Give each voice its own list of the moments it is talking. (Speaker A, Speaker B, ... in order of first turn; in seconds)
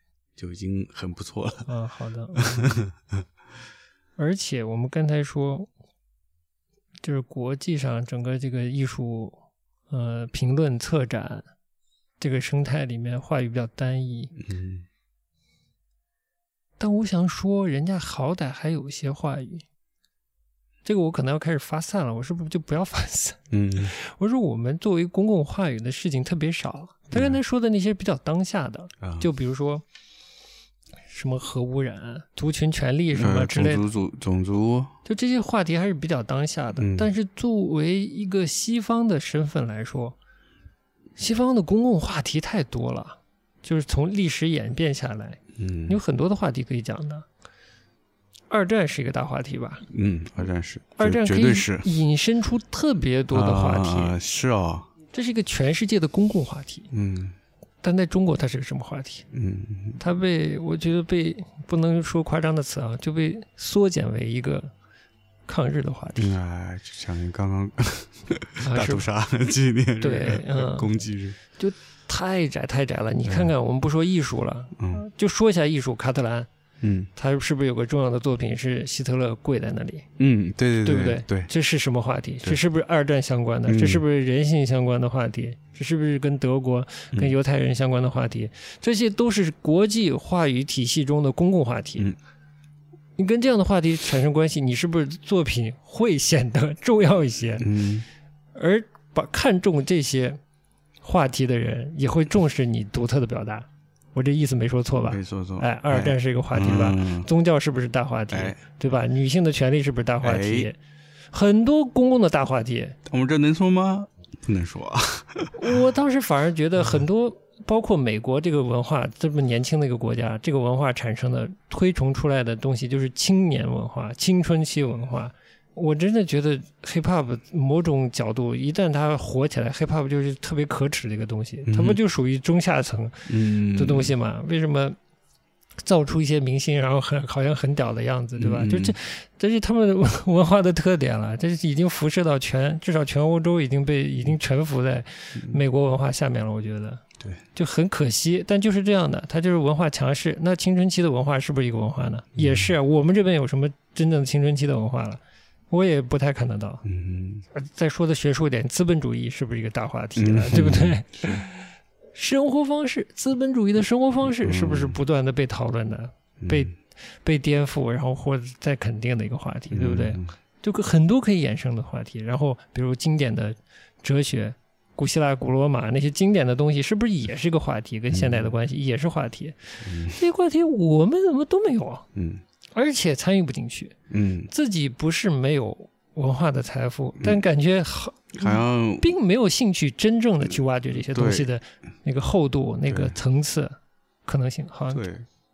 Speaker A: 0.4-1.7, 2.4-3.2, 14.4-14.9, 23.5-23.9, 27.1-27.4, 29.0-29.3, 33.1-35.0, 36.8-37.1, 45.6-46.0, 49.9-51.9, 53.3-54.9, 56.9-57.4, 59.3-60.0, 66.2-71.4, 73.2-73.5, 74.8-75.0, 76.8-77.1, 80.2-81.5, 83.7-84.0, 97.6-98.1, 105.1-107.3, 108.3-108.6, 110.2-110.7, 113.0-115.7, 131.7-132.0, 133.3-134.1, 138.4-139.0, 152.3-152.7, 156.8-157.4, 160.2-161.5, 164.3-165.0, 166.4-166.7, 169.7-170.3, 178.1-178.5, 179.8-180.2, 182.1-182.4, 184.1-184.5, 188.4-189.1, 191.1-191.5, 192.9-193.2, 194.9-195.3
Speaker B: 1.7-2.8, 4.2-5.7, 7.0-9.4, 9.9-11.5, 12.2-14.4, 16.8-19.6, 20.9-29.9, 31.1-33.9, 35.1-40.2, 41.2-47.3, 48.5-49.9, 51.0-54.2, 55.1-56.9, 57.8-59.3, 60.0-64.7, 65.5-66.4, 68.6-69.1, 70.0-70.9, 71.5-76.5, 77.2-80.1, 80.8-92.1, 93.2-97.7, 98.5-100.4, 101.0-110.8, 111.3-113.0, 115.6-135.0, 135.8-156.8, 157.5-182.1, 182.8-184.0, 184.5-195.0